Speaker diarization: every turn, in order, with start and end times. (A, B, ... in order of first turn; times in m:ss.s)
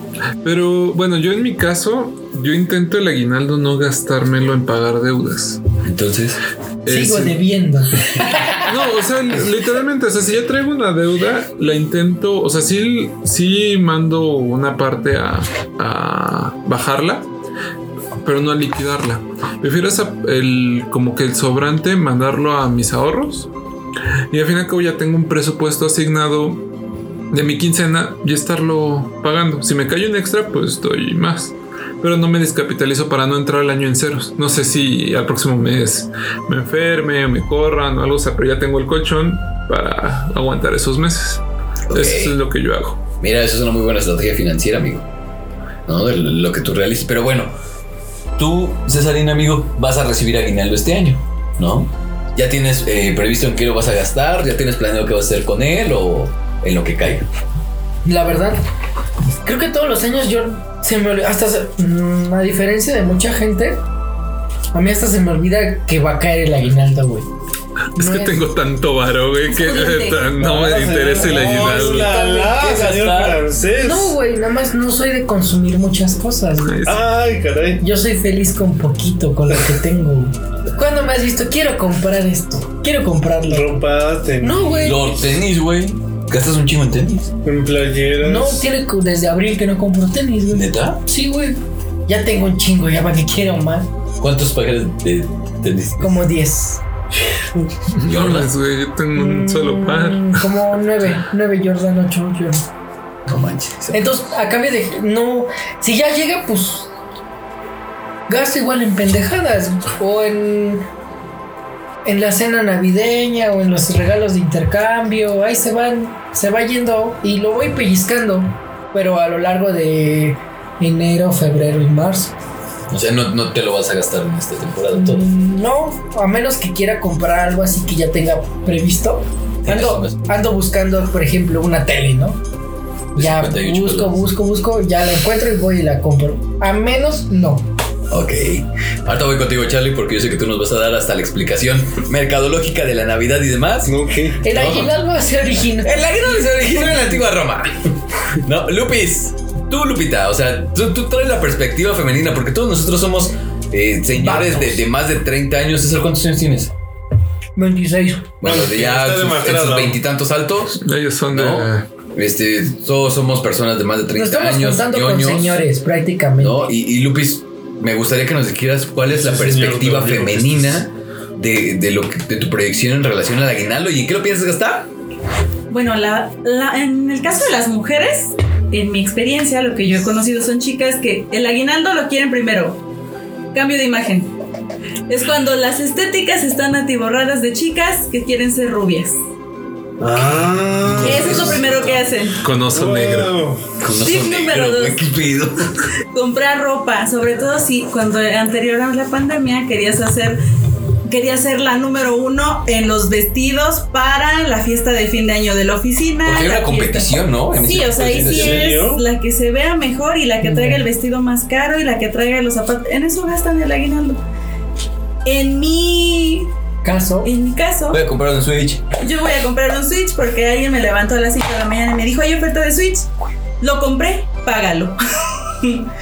0:00.4-0:05.6 A
0:05.8-0:06.4 B
0:06.8-0:07.4 A
0:06.9-0:08.1 C
0:08.2-0:08.6 B
0:08.6-0:17.3 A
0:18.2-0:23.5 A
0:24.3-0:26.6 A
0:27.3-0:43.0 A
0:41.9-0:42.4 B
0:43.2-0:45.0 B
0:45.9-0:47.5 B
0:48.4-0:57.3 B
0:58.0-0:58.6 C
0:59.4-1:03.8 C
1:04.7-1:07.3 C
1:08.0-1:08.4 C
1:08.0-1:12.1 A
1:09.5-1:10.3 D
1:10.4-1:14.1 E
1:11.1-1:12.6 C
1:11.3-1:13.4 B
1:13.8-1:16.9 C
1:16.7-1:17.0 A
1:16.9-1:17.8 E
1:17.8-1:23.8 C
1:23.5-1:25.1 E
1:24.4-1:25.1 C
1:24.8-1:27.3 B
1:27.4-1:28.7 E
1:28.2-1:33.9 C
1:30.5-1:31.0 B
1:34.2-1:36.2 B
1:36.0-1:36.8 C
1:37.9-1:40.5 A
1:38.0-1:38.5 B
1:39.2-1:42.6 C
1:43.3-1:44.1 B
1:43.9-1:46.9 C
1:48.3-1:50.9 C
1:52.0-2:02.3 C
2:02.9-2:05.3 B
2:04.9-2:12.4 C
2:09.6-2:10.3 B
2:13.2-2:14.2 B
2:13.2-2:17.7 C
2:18.1-2:24.0 B
2:23.8-2:24.4 E
2:24.4-2:26.0 C
2:24.5-2:24.9 B
2:25.7-2:27.8 B
2:28.4-2:36.7 B
2:34.1-2:34.8 C
2:37.6-2:38.4 C
2:38.4-2:45.6 B
2:38.4-2:40.0 E
2:40.8-2:41.9 A
2:44.2-2:46.7 C
2:46.4-2:54.9 B
2:49.1-2:50.8 E
2:55.7-3:02.8 D
3:03.5-3:04.3 D
3:05.1-3:09.2 D
3:10.0-3:11.6 E
3:10.8-3:12.0 B
3:11.0-3:12.4 D
3:12.4-3:13.4 A
3:12.7-3:13.7 E
3:13.8-3:15.9 B
3:14.0-3:15.0 D
3:16.1-3:20.4 D
3:21.0-3:34.2 D
3:26.2-3:28.8 B
3:28.0-3:29.0 E
3:30.4-3:30.9 C
3:35.2-3:36.5 D
3:36.8-3:37.3 C
3:37.2-3:38.0 D
3:37.9-3:38.9 B
3:39.0-3:43.1 D
3:43.6-3:45.9 D